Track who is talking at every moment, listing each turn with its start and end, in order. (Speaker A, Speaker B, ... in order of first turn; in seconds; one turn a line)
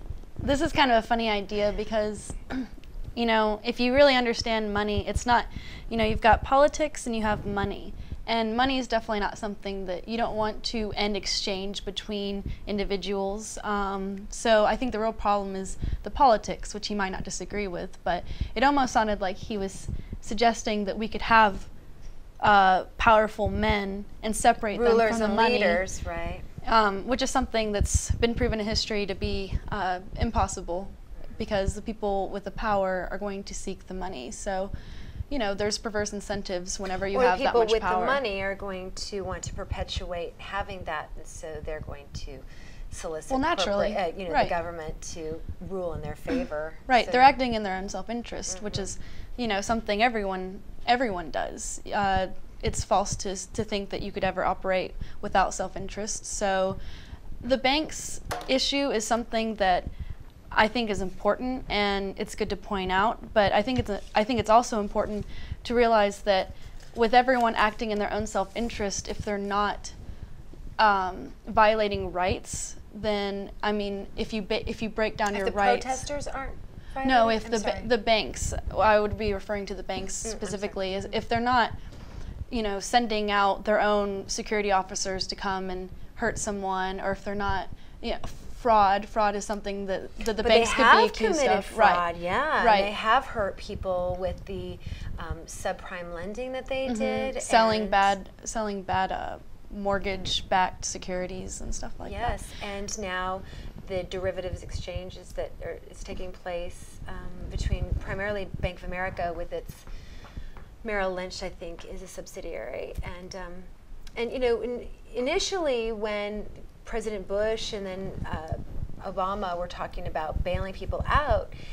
Speaker A: 0.4-21.7
Speaker A: 22.4-25.8
Speaker B: 24.7-26.5
Speaker A: 26.6-34.7
Speaker A: 35.3-38.2
Speaker B: 37.1-47.3
Speaker A: 43.3-44.5
Speaker A: 46.9-56.8
Speaker B: 48.5-48.9
Speaker A: 57.4-59.9
Speaker A: 60.5-70.0
Speaker A: 70.8-76.0
Speaker B: 75.3-77.9
Speaker A: 77.0-81.8
Speaker B: 80.2-81.1
Speaker A: 82.5-92.0
Speaker B: 90.4-98.1
Speaker A: 92.6-92.9
Speaker A: 96.9-102.4
Speaker B: 102.0-109.9
Speaker B: 110.8-121.5